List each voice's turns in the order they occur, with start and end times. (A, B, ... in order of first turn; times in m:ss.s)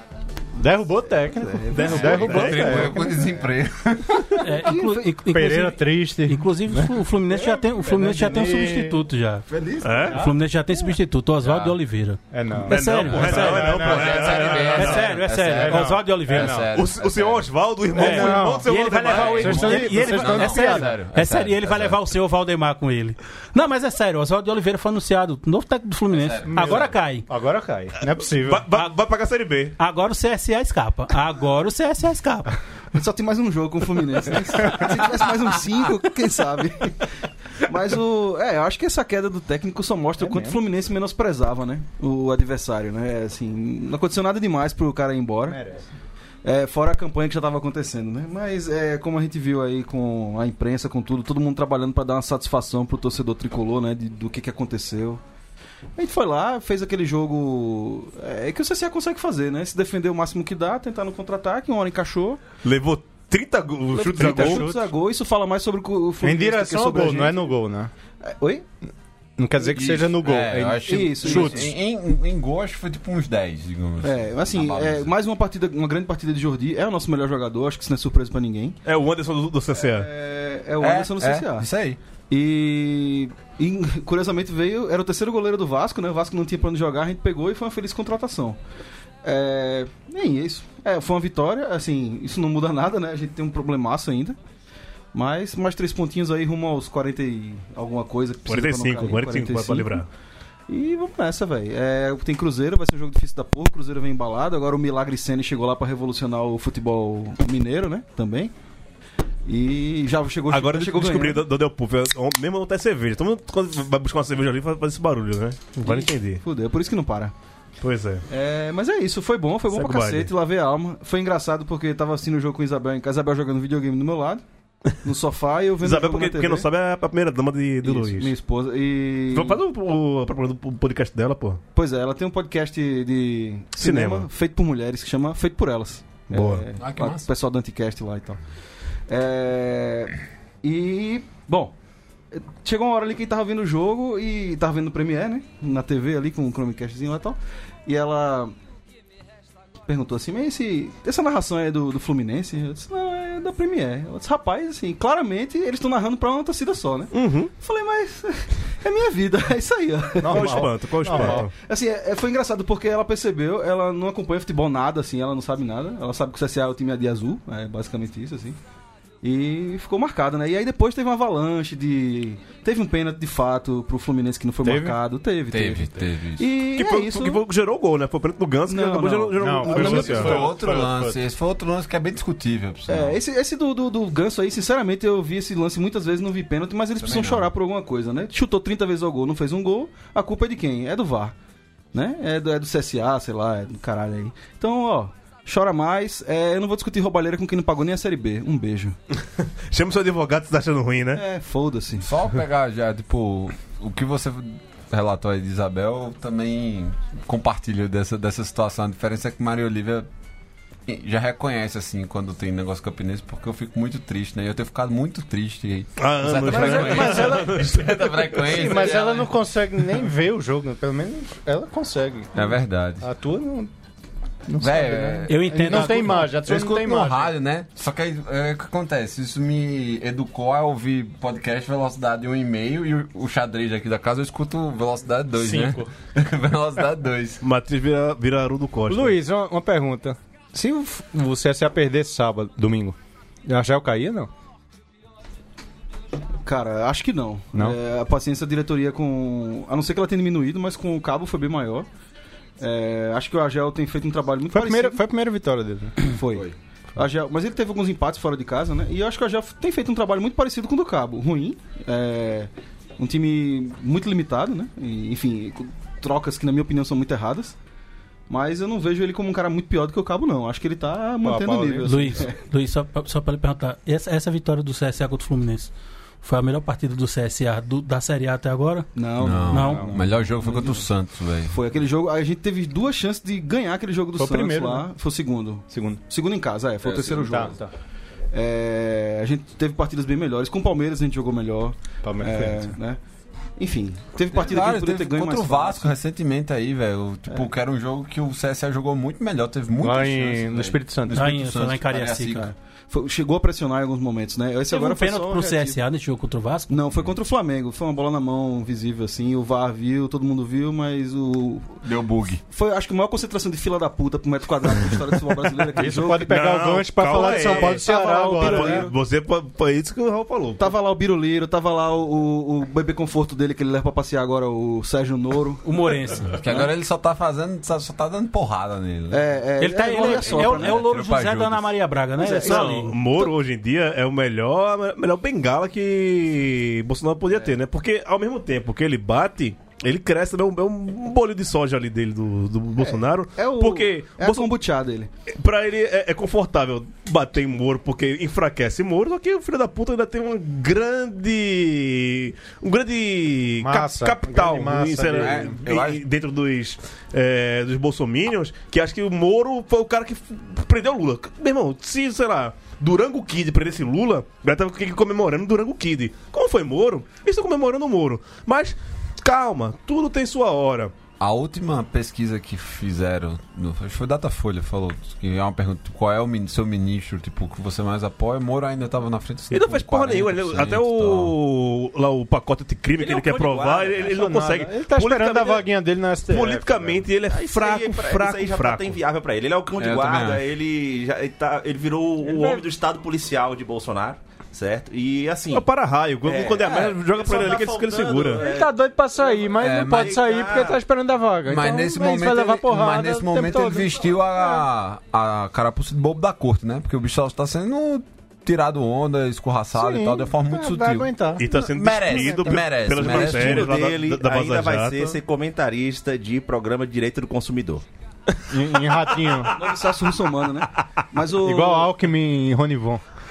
0:00.6-0:03.4 A
0:01.5-0:02.2 B
0:01.7-0:02.9 C
0:01.8-0:04.4 D
0:04.1-0:09.0 A
0:04.4-0:09.4 E
0:04.7-0:05.0 B
0:09.5-0:10.2 D
0:09.8-0:10.2 C
0:10.0-0:16.6 E
0:11.4-0:11.8 D
0:12.3-0:14.7 A
0:12.7-0:15.1 C
0:13.1-0:17.5 D
0:15.4-0:16.7 A
0:16.7-0:19.9 C
0:18.0-0:20.9 A
0:18.0-0:27.3 E
0:19.0-0:22.0 D
0:26.1-0:26.9 D
0:26.5-0:28.7 A
0:28.3-0:29.8 C
0:29.8-0:32.5 E
0:32.9-0:37.0 B
0:37.6-0:45.6 B
0:40.2-0:40.6 A
0:45.5-0:45.9 A
0:46.4-0:55.2 B
0:56.0-1:02.4 B
1:02.6-1:04.7 C
1:03.9-1:07.5 B
1:04.2-1:04.9 A
1:06.2-1:07.9 A
1:08.2-1:08.7 B
1:09.4-1:11.7 A
1:09.7-1:15.1 D
1:10.8-1:11.8 B
1:14.0-1:18.8 B
1:18.8-1:20.1 C
1:19.8-1:21.7 B
1:20.8-1:22.0 D
1:22.3-1:28.6 B
1:29.2-1:34.4 B
1:35.1-1:40.0 B
1:38.5-1:40.1 C
1:40.7-1:48.5 B
1:49.5-1:51.4 B
1:50.5-1:56.4 C
1:55.8-1:57.3 B
1:57.8-1:58.2 C
1:58.3-2:04.4 B
1:59.7-2:00.3 C
2:05.0-2:06.7 B
2:05.8-2:08.3 C
2:07.8-2:09.6 B
2:09.3-2:11.6 C
2:11.8-2:18.4 B
2:13.8-2:14.3 C
2:16.3-2:16.6 C
2:16.8-2:17.3 D
2:19.1-2:21.7 B
2:22.3-2:28.6 B
2:29.9-2:48.6 B
2:37.1-2:37.5 C
2:40.2-2:41.5 A
2:40.3-2:41.5 C
2:49.2-2:57.4 B
2:54.6-2:55.0 A
2:55.5-2:56.5 D
2:56.7-3:00.5 C
2:58.7-3:00.5 B
2:59.4-3:01.2 A
2:59.8-3:03.2 D
3:02.9-3:11.4 B
3:07.0-3:07.5 D
3:11.9-3:19.0 B
3:19.4-3:21.2 C
3:21.1-3:22.1 B
3:22.0-3:30.1 D
3:30.9-3:39.3 D
3:36.0-3:38.7 C
3:36.5-3:37.6 A
3:38.5-3:43.7 A
3:42.4-3:43.1 D
3:44.5-3:47.3 A
3:44.6-3:57.4 D
3:45.3-3:46.3 E
3:55.4-3:55.8 A
3:57.4-3:59.2 C
3:58.9-4:04.3 A
4:06.4-4:11.9 B
4:12.6-4:15.0 B
4:14.5-4:16.0 A
4:16.0-4:27.6 B
4:28.3-4:32.4 B
4:31.2-4:32.2 A
4:31.8-4:35.7 E
4:36.2-4:38.9 E
4:39.0-4:40.9 B
4:39.2-4:41.6 D
4:39.5-4:39.8 E
4:39.7-4:40.1 A
4:41.5-4:47.6 B
4:44.2-4:44.9 A
4:45.7-4:46.0 A
4:47.1-4:47.7 A
4:48.3-4:53.0 B
4:52.0-4:52.8 A
4:53.6-4:56.0 B
4:54.3-5:02.5 D
4:59.8-5:01.3 A
5:01.1-5:02.5 E
5:02.4-5:05.8 B
5:04.7-5:06.8 E
5:06.7-5:11.9 B
5:11.8-5:12.4 D
5:12.5-5:16.4 B
5:15.8-5:18.9 A
5:16.3-5:20.7 C
5:17.1-5:18.9 B
5:20.6-5:25.7 B
5:25.6-5:26.4 E
5:26.4-5:29.3 D
5:26.5-5:26.7 B
5:29.1-5:30.9 B
5:29.6-5:33.0 E
5:30.0-5:31.7 D
5:32.2-5:33.3 B
5:32.4-5:44.5 C
5:42.8-5:45.1 B
5:45.3-6:11.0 C
5:53.6-5:55.6 A
5:55.1-5:56.0 D
6:11.2-6:21.4 D
6:19.5-6:25.7 C
6:23.0-6:24.2 F
6:24.0-6:27.1 A
6:26.3-6:29.0 C
6:27.3-6:35.7 F
6:29.8-6:30.4 D
6:35.5-6:38.5 C
6:36.2-6:40.8 F
6:38.4-6:44.6 A
6:39.6-6:40.2 D
6:41.5-6:53.7 D
6:49.7-6:52.6 A
6:51.4-6:55.2 C
6:53.0-6:57.8 F
6:58.5-6:59.7 A
6:59.6-7:01.9 B
7:01.4-7:03.0 A